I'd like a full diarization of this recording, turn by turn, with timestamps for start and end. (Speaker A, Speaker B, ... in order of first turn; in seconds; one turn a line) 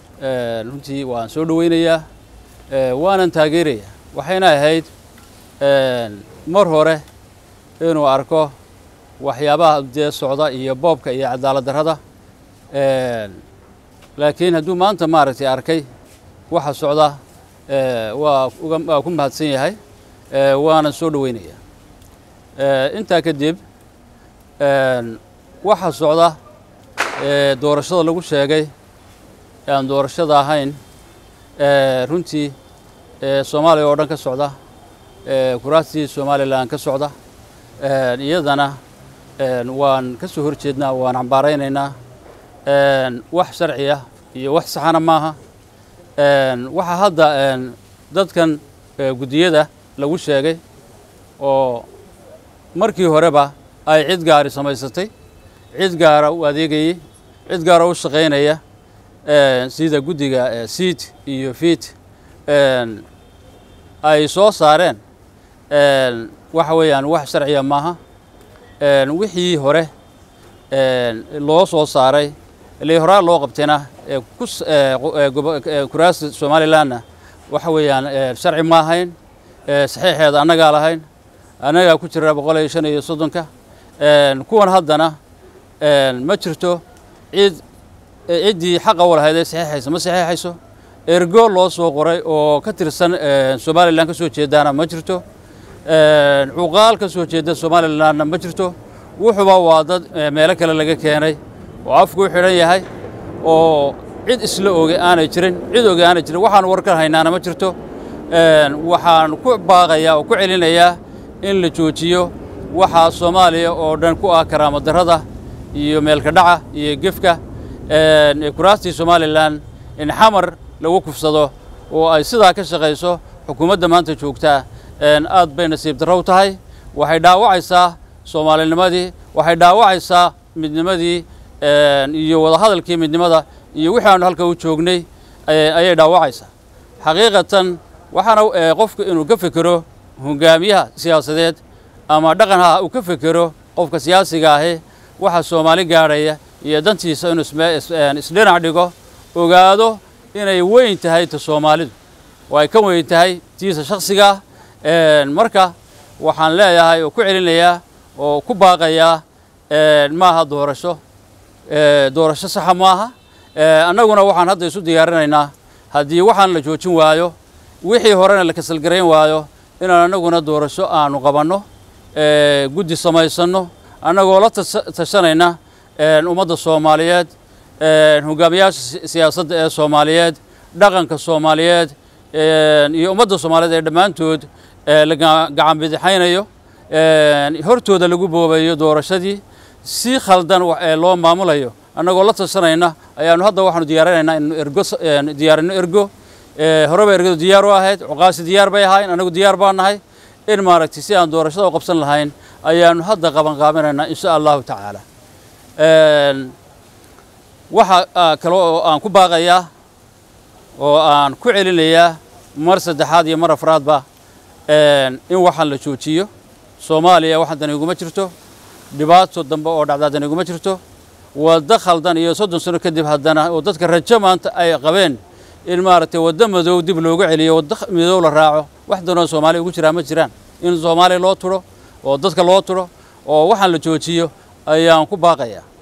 Speaker A: 0.2-2.0
Speaker A: 2.7-4.9
Speaker A: 5.6-7.0
Speaker A: 7.8-8.5
Speaker A: 9.2-12.0
Speaker A: 12.7-13.4
Speaker A: 14.2-15.9
Speaker A: 16.5-19.8
Speaker A: 20.3-21.6
Speaker A: 22.6-23.6
Speaker A: 24.6-26.4
Speaker A: 27.1-28.7
Speaker A: 29.7-30.8
Speaker A: 31.6-32.5
Speaker A: 33.2-34.5
Speaker A: 35.2-37.1
Speaker A: 37.8-38.8
Speaker A: 39.4-41.9
Speaker A: 42.6-45.4
Speaker A: 46.2-50.6
Speaker A: 51.4-51.9
Speaker A: 52.7-55.1
Speaker A: 55.7-58.6
Speaker A: 59.2-62.0
Speaker A: 62.5-63.0
Speaker A: 64.0-65.0
Speaker A: 65.7-68.0
Speaker A: 68.8-69.9
Speaker A: 70.7-79.1
Speaker A: 79.7-81.0
Speaker A: 81.6-83.5
Speaker A: 84.0-85.2
Speaker A: 85.8-87.6
Speaker A: 88.3-90.6
Speaker A: 91.1-95.2
Speaker A: 95.8-102.9
Speaker A: 103.4-107.7
Speaker A: 108.3-151.9
Speaker A: 152.5-161.0
Speaker A: 161.7-171.6
Speaker A: 172.1-205.0
Speaker A: 205.8-206.5
Speaker A: 207.7-209.7
Speaker A: 210.8-214.0
Speaker A: 214.7-218.3
Speaker A: 218.9-220.8
Speaker A: 221.3-235.6